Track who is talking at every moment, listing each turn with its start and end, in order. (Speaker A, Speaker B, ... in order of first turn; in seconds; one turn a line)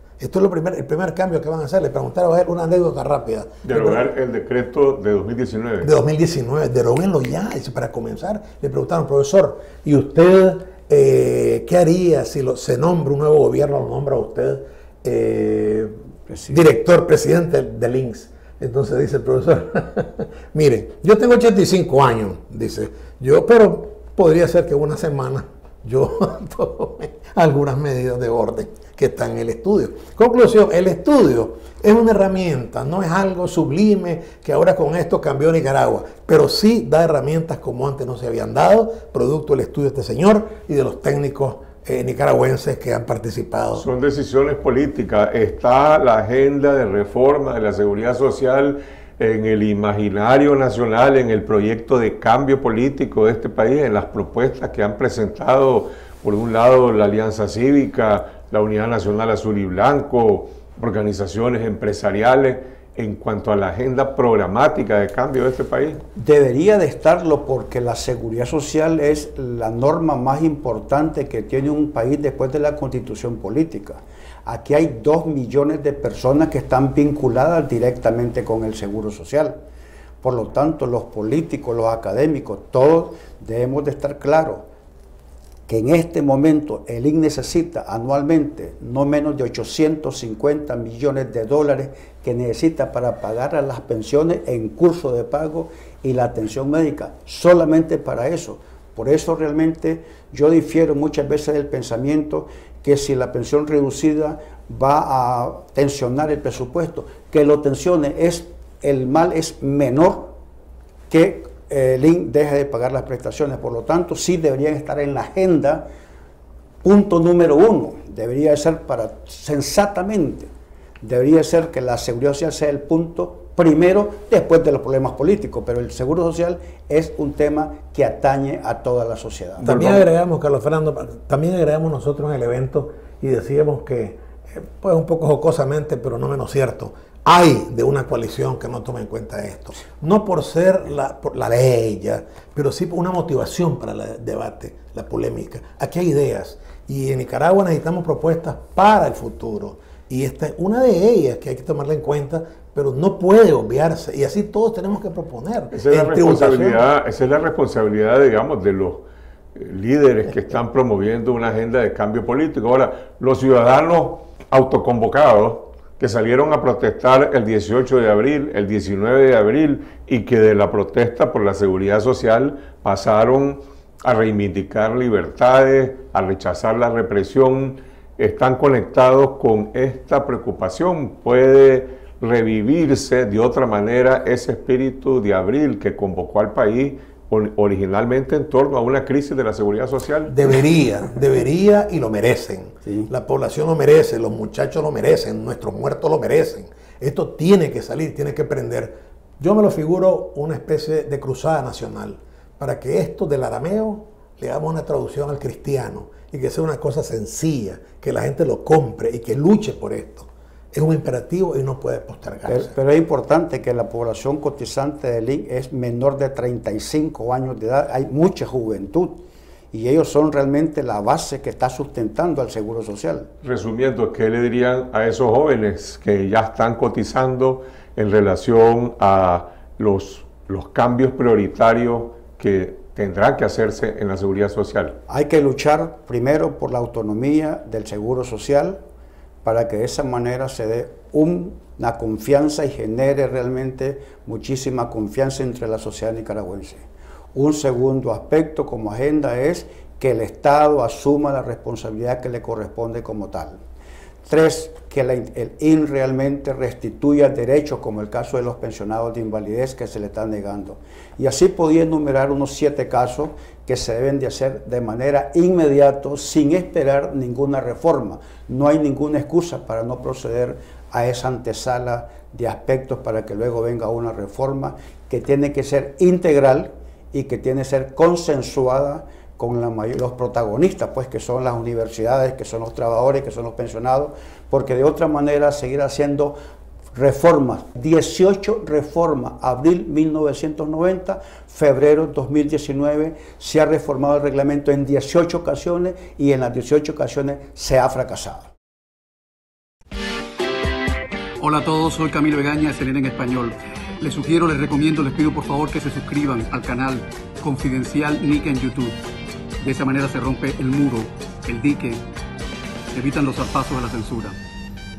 Speaker A: 0.2-4.1
Speaker B: 3.6-5.9
Speaker A: 5.8-15.9
Speaker C: 16.3-16.6
Speaker A: 16.5-43.9
Speaker B: 43.8-66.0
Speaker C: 66.2-79.6
Speaker C: 80.2-84.7
Speaker C: 85.7-110.3
Speaker C: 111.1-115.9
Speaker C: 116.8-120.5
Speaker C: 121.0-129.7
Speaker A: 129.6-156.9
Speaker B: 129.6-130.0
Speaker B: 155.7-190.3
Speaker A: 190.3-212.8
Speaker C: 212.5-223.3
Speaker B: 223.4-235.0
Speaker C: 235.1-238.8
Speaker C: 239.4-253.6
Speaker C: 254.2-286.4
Speaker C: 286.9-298.5
Speaker D: 301.4-309.0
Speaker D: 309.6-312.0
Speaker D: 312.9-314.4